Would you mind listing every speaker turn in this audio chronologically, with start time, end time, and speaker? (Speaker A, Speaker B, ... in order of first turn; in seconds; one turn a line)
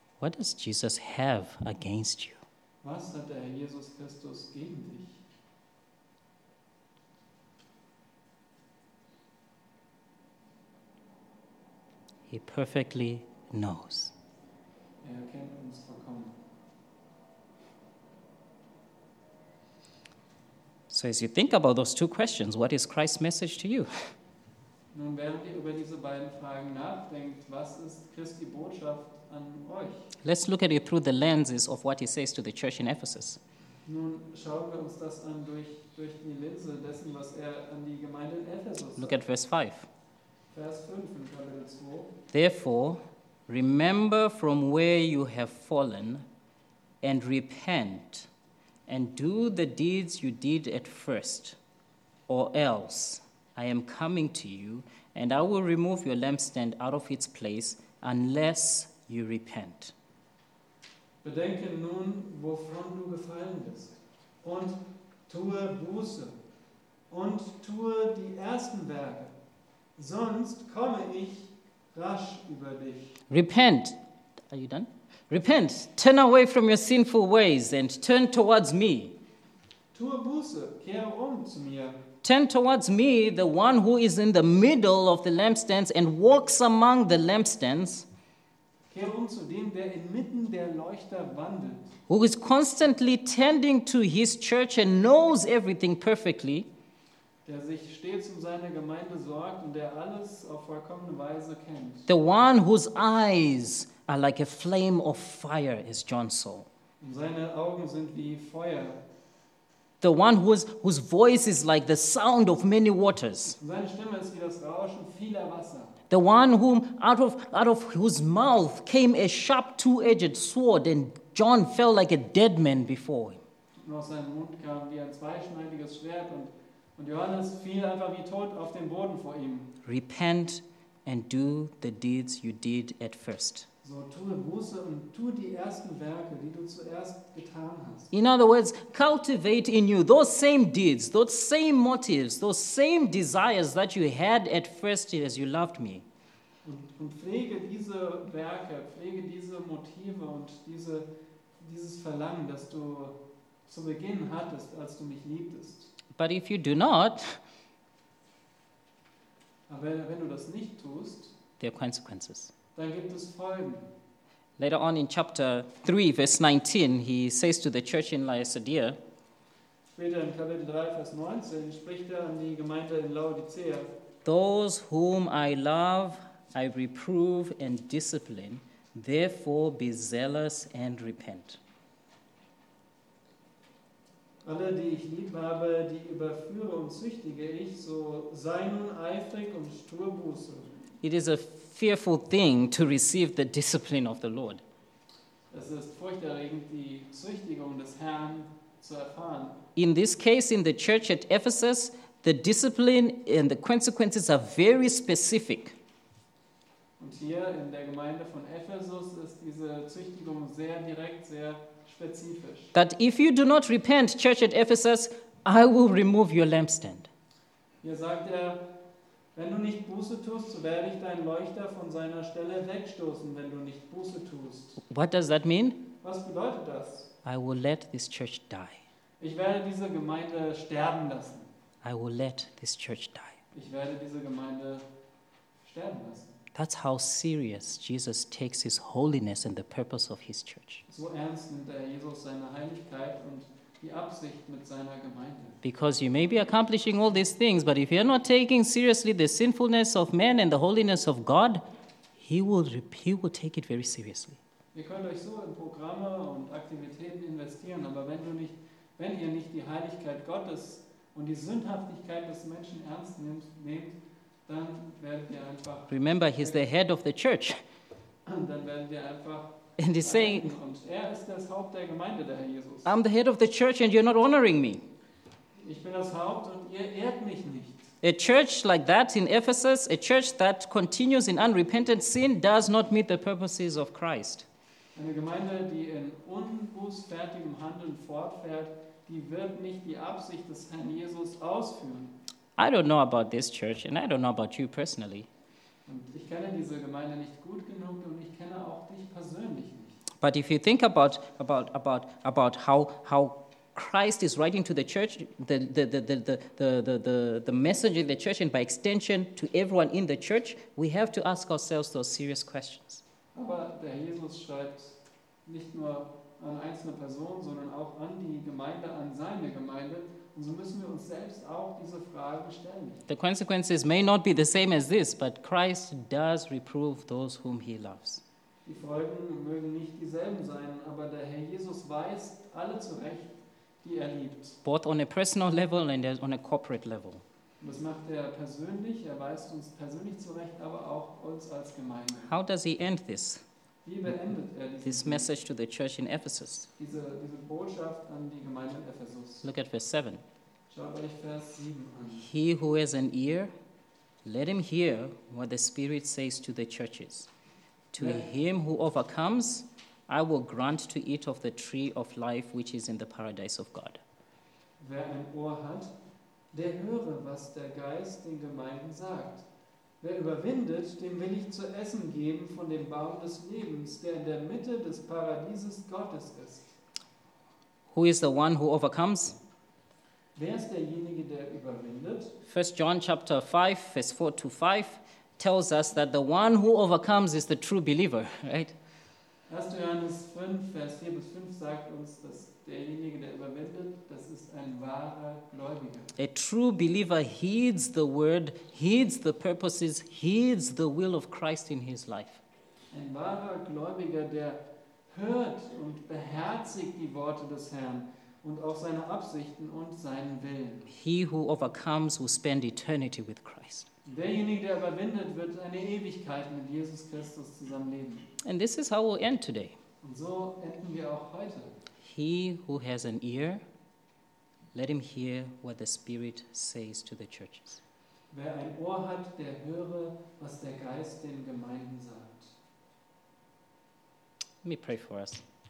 Speaker A: 0.2-2.4
Speaker B: 2.8-5.2
Speaker A: 12.3-14.1
Speaker B: 15.0-16.3
Speaker A: 20.9-23.9
Speaker B: 24.9-30.1
Speaker A: 30.2-33.4
Speaker B: 33.9-39.2
Speaker A: 39.0-39.9
Speaker B: 40.5-42.1
Speaker A: 42.3-46.2
Speaker A: 47.0-48.3
Speaker A: 48.9-51.6
Speaker A: 52.3-59.9
Speaker B: 61.2-64.8
Speaker B: 65.3-66.3
Speaker B: 67.1-69.3
Speaker B: 70.0-73.2
Speaker A: 73.3-74.0
Speaker A: 74.5-79.2
Speaker B: 79.9-82.0
Speaker A: 82.2-88.1
Speaker B: 88.9-91.9
Speaker A: 92.1-96.7
Speaker B: 97.4-102.1
Speaker A: 102.1-106.7
Speaker B: 107.0-109.0
Speaker A: 110.0-113.6
Speaker B: 113.6-116.0
Speaker A: 116.1-123.4
Speaker B: 123.8-129.7
Speaker A: 129.8-133.7
Speaker B: 133.8-138.1
Speaker A: 138.1-146.0
Speaker B: 146.6-151.1
Speaker B: 151.6-155.9
Speaker A: 156.2-157.4
Speaker B: 159.7-161.3
Speaker A: 161.6-162.5
Speaker B: 162.8-163.8
Speaker A: 164.6-169.0
Speaker B: 169.9-173.9
Speaker A: 174.2-181.6
Speaker B: 184.4-190.8
Speaker A: 191.0-194.6
Speaker B: 195.5-199.6
Speaker A: 199.8-205.8
Speaker B: 207.0-212.7
Speaker A: 212.7-217.1
Speaker B: 217.8-218.6
Speaker B: 219.3-224.8
Speaker A: 224.8-225.8
Speaker B: 226.0-227.1
Speaker A: 227.2-228.8
Speaker B: 229.2-231.5
Speaker A: 231.8-233.4
Speaker B: 233.5-234.8
Speaker B: 235.6-236.3
Speaker A: 236.5-240.8
Speaker B: 240.9-245.6
Speaker A: 245.6-251.6
Speaker A: 252.2-254.4
Speaker B: 254.7-266.6
Speaker A: 265.9-267.6
Speaker B: 268.2-272.9
Speaker A: 269.8-270.5
Speaker A: 272.9-274.8
Speaker B: 275.6-277.9
Speaker A: 278.0-284.4
Speaker B: 284.9-292.1
Speaker A: 292.6-295.3
Speaker B: 295.9-300.0
Speaker A: 300.2-313.0
Speaker B: 313.3-323.0
Speaker A: 323.1-328.2
Speaker B: 328.6-334.6
Speaker A: 334.6-337.2
Speaker B: 337.6-342.3
Speaker A: 342.3-343.4
Speaker B: 343.8-345.3
Speaker A: 344.8-346.7
Speaker B: 346.8-349.5
Speaker A: 349.4-350.2
Speaker B: 350.7-352.3
Speaker A: 352.2-353.5
Speaker A: 354.2-357.3
Speaker A: 357.9-364.0
Speaker B: 358.0-358.3
Speaker B: 364.8-365.9
Speaker B: 366.5-369.4
Speaker B: 370.0-376.6
Speaker A: 377.9-379.4
Speaker B: 380.4-382.3
Speaker A: 382.4-388.7
Speaker B: 389.5-396.1
Speaker A: 396.2-402.4
Speaker B: 402.9-410.9
Speaker A: 410.9-413.9
Speaker B: 414.1-418.3
Speaker A: 418.4-419.8
Speaker B: 420.0-421.8
Speaker A: 422.0-423.6
Speaker A: 424.7-427.8
Speaker B: 428.3-432.5
Speaker A: 434.6-435.4